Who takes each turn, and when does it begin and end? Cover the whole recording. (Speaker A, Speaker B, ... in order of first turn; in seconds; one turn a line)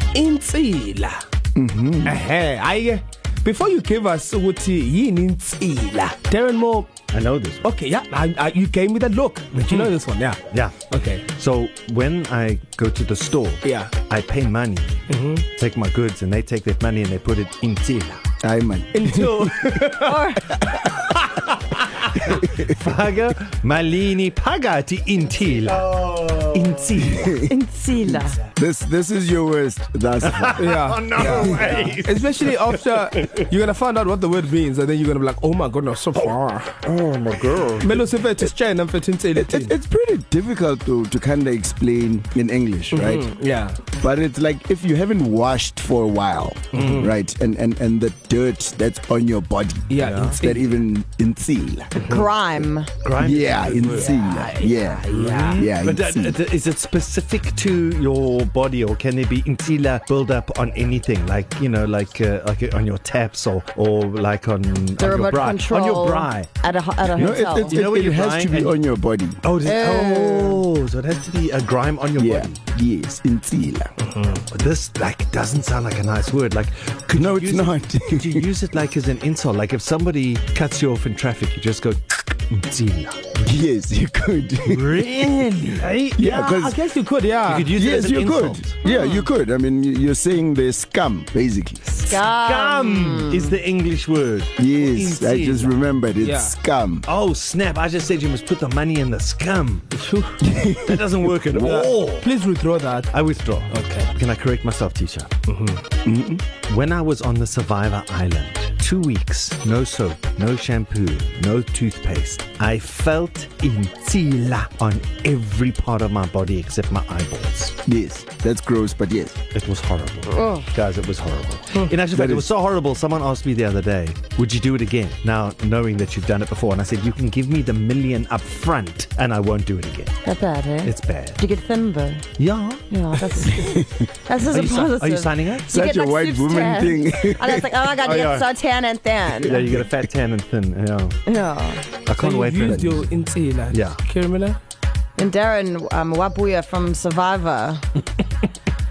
Speaker A: 0.1-1.2
Speaker B: 1.5-2.2
Speaker A: 2.0-6.9
Speaker C: 7.1-7.6
Speaker A: 7.6-11.2
Speaker C: 10.5-14.9
Speaker A: 13.6-13.9
Speaker A: 15.1-15.4
Speaker C: 15.5-18.2
Speaker B: 18.4-19.5
Speaker A: 18.9-20.4
Speaker D: 19.9-20.5
Speaker C: 20.8-27.4
Speaker B: 22.2-22.7
Speaker B: 27.0-27.5
Speaker D: 27.5-28.4
Speaker B: 28.1-31.7
Speaker C: 30.2-33.5
Speaker A: 30.6-36.8
Speaker C: 36.8-38.0
Speaker A: 37.8-39.7
Speaker B: 39.3-43.3
Speaker A: 42.9-43.8
Speaker B: 44.0-52.6
Speaker A: 46.7-47.1
Speaker C: 46.7-47.0
Speaker A: 49.9-50.8
Speaker C: 50.0-50.4
Speaker A: 52.0-52.3
Speaker D: 52.1-52.9
Speaker C: 53.0-54.1
Speaker B: 53.2-56.4
Speaker A: 53.9-55.6
Speaker C: 55.1-66.5
Speaker D: 65.0-67.8
Speaker B: 67.1-69.4
Speaker C: 67.2-68.8
Speaker C: 69.4-72.6
Speaker D: 69.6-70.6
Speaker B: 72.2-73.9
Speaker A: 74.0-74.4
Speaker C: 74.5-83.4
Speaker B: 77.1-78.5
Speaker B: 83.4-85.0
Speaker C: 84.7-86.2
Speaker B: 86.2-86.8
Speaker A: 86.2-87.7
Speaker C: 87.5-88.8
Speaker B: 87.7-91.8
Speaker D: 88.8-89.3
Speaker D: 92.0-93.5
Speaker C: 92.0-95.8
Speaker B: 94.6-97.1
Speaker A: 96.2-96.5
Speaker C: 97.0-99.9
Speaker A: 99.9-100.5
Speaker B: 100.4-101.7
Speaker C: 100.8-102.3
Speaker A: 101.5-103.1
Speaker C: 103.1-105.3
Speaker A: 103.7-104.1
Speaker A: 105.5-105.8
Speaker B: 106.0-106.4
Speaker C: 106.6-117.8
Speaker B: 117.8-119.4
Speaker C: 119.5-130.2
Speaker D: 120.3-120.7
Speaker B: 122.1-122.5
Speaker D: 130.2-132.3
Speaker C: 130.8-131.4
Speaker C: 132.4-133.5
Speaker D: 132.9-139.7
Speaker C: 134.4-135.7
Speaker B: 135.7-137.8
Speaker C: 138.0-138.5
Speaker C: 139.4-141.2
Speaker B: 139.6-139.9
Speaker D: 141.2-141.8
Speaker C: 142.1-143.1
Speaker A: 142.2-144.6
Speaker B: 142.6-143.0
Speaker C: 143.7-144.0
Speaker D: 145.2-147.8